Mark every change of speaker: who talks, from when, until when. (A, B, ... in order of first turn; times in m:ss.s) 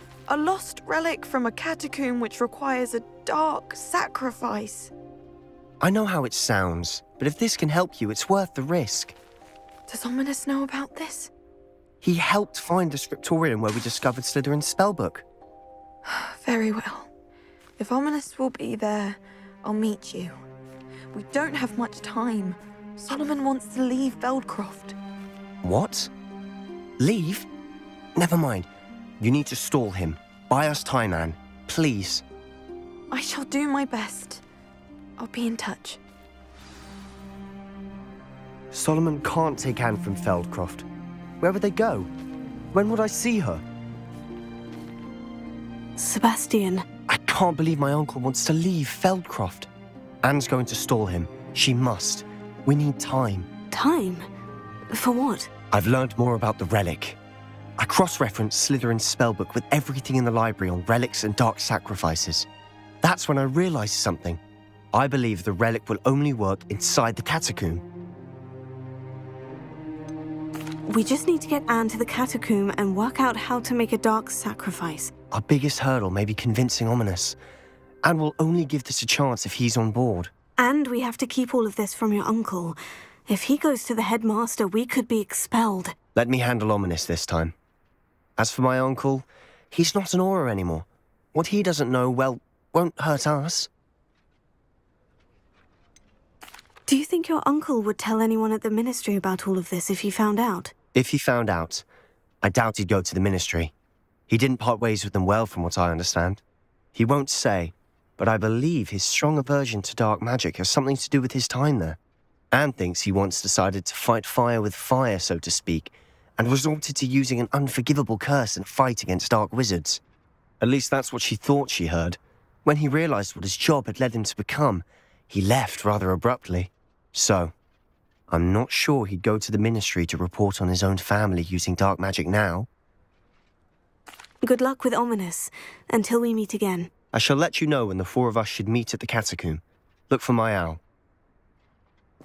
0:00.3-0:04.9 A
0:05.8-0:09.2 B
0:09.9-0:11.3 A
0:12.0-0:15.2 B
0:16.0-0:17.1 A
0:17.8-0:20.4 A
0:21.1-0:24.9 A
0:25.6-0:26.1 B
0:27.0-0:27.5 B
0:28.2-0:28.7 B
0:29.2-0:32.2 B
0:33.1-0:34.4 A
0:35.2-0:36.0 A
0:38.7-0:40.8 B
0:41.4-0:42.1 B
0:42.7-0:43.6 B
0:46.0-0:46.8 C
0:47.1-0:49.7 B
0:50.2-0:53.5 B
0:53.7-0:54.3 C
0:54.9-0:55.5 C
0:55.7-0:57.2 B
0:57.8-1:02.5 B
1:03.0-1:04.4 B
1:04.9-1:07.8 B
1:10.9-1:15.1 C
1:15.3-1:17.4 B
1:18.0-1:20.3 B
1:20.6-1:26.0 C
1:26.1-1:27.5 B
1:28.4-1:33.7 B
1:36.9-1:40.7 C
1:40.9-1:41.8 B
1:42.4-1:43.7 B
1:44.3-1:46.4 B
1:46.9-1:52.0 B
1:52.5-2:00.0 B
2:00.6-2:07.5 B
2:08.3-2:12.7 B
2:14.4-2:16.9 C
2:17.1-2:20.8 B